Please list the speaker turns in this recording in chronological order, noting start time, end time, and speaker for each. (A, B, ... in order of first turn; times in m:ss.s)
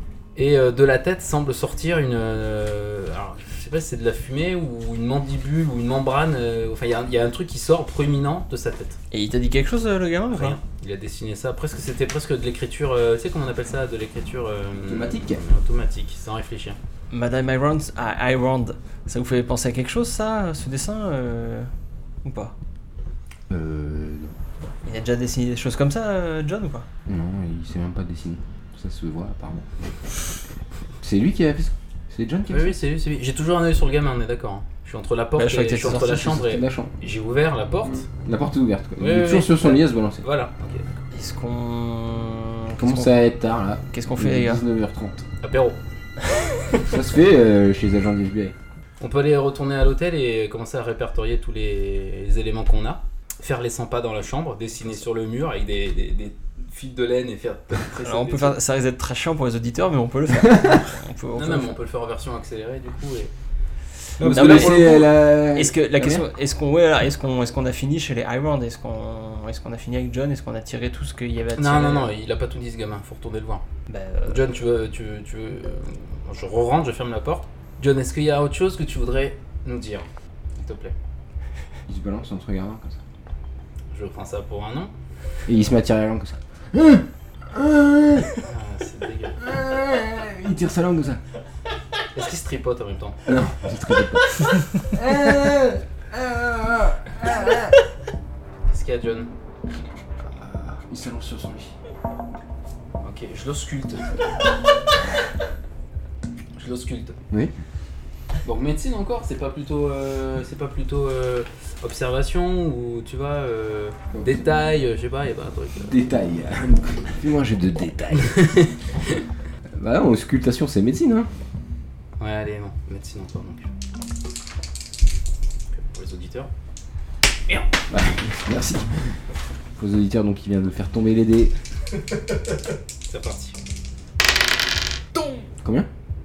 0:00.4-0:09.0 A
0:09.1-0:10.6 B
0:10.3-0:16.8 A
0:14.8-0:15.4 C
0:17.1-0:21.7 B
0:22.2-0:22.6 B
0:23.5-0:24.3 C
0:24.8-0:26.9 B
0:27.1-0:29.7 C
0:31.0-0:32.8 C
0:32.5-0:38.1 A
0:35.4-0:36.2 B
0:35.8-0:36.9 C
0:37.8-0:40.2 C
0:39.0-0:41.0 A
0:41.1-0:43.2 B
0:42.8-0:45.2 C
0:43.9-0:44.6 B
0:45.4-0:45.8 A
0:46.7-0:48.6 C
0:49.0-0:58.6 A
0:58.0-1:01.8 B
1:00.4-1:00.8 C
1:01.4-1:03.3 A
1:04.2-1:05.0 A
1:04.2-1:06.2 C
1:04.2-1:12.1 B
1:11.6-1:13.6 A
1:13.9-1:14.5 B
1:14.3-1:21.0 A
1:21.9-1:23.0 C
1:23.9-1:24.9 A
1:25.5-1:28.3 C
1:28.4-1:29.5 A
1:29.4-1:31.2 C
1:32.1-1:33.2 A
1:33.3-1:37.8 C
1:38.7-1:39.3 A
1:40.2-1:41.7 C
1:43.0-1:44.1 A
1:46.6-1:47.2 A
1:48.4-1:55.9 A
1:54.1-1:54.5 C
1:55.8-1:58.6 C
1:58.2-1:59.2 A
1:59.8-2:01.3 C
2:02.2-2:03.7 A
2:05.7-2:06.5 A
2:07.9-2:09.2 C
2:09.8-2:11.5 C
2:13.1-2:13.6 A
2:15.6-2:15.9 C